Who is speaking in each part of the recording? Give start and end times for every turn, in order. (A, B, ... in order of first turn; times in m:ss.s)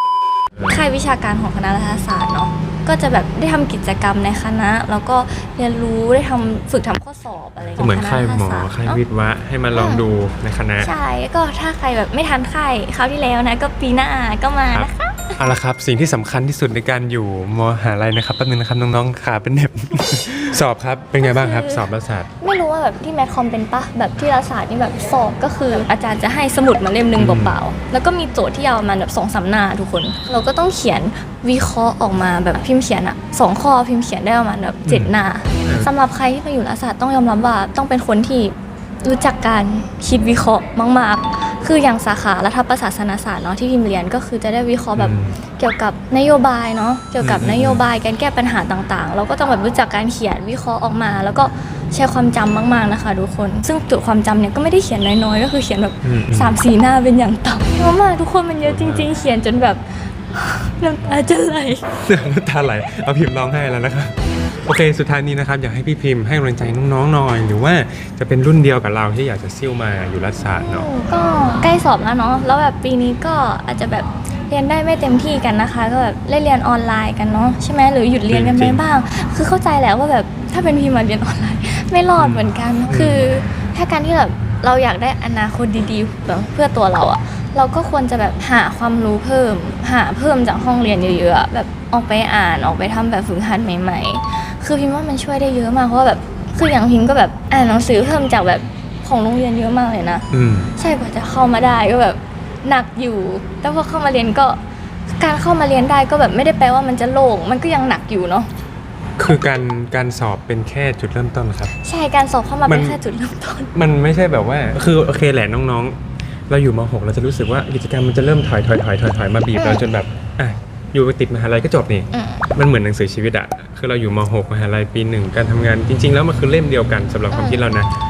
0:00.6-0:09.0 A
0:07.6-0:10.9 B
0:09.7-0:10.0 A
0:10.8-0:15.4 A
0:14.7-0:22.3 B
0:21.2-0:21.8 A
0:22.4-1:01.9 A
0:27.2-0:27.6 B
0:34.8-0:35.1 B
0:45.0-0:45.4 B
0:47.2-0:47.8 B
0:56.0-0:56.6 B
0:58.6-0:59.1 B
1:02.0-1:10.9 B
1:10.6-1:40.2 A
1:18.3-1:18.8 B
1:22.2-1:23.3 B
1:40.3-1:40.7 B
1:40.8-1:48.5 A
1:49.2-1:51.7 B
1:51.8-1:53.7 A
1:52.7-1:53.0 B
1:53.7-1:56.0 B
1:56.5-2:07.9 B
1:59.6-1:59.8 A
2:02.1-2:02.5 A
2:07.3-2:07.7 A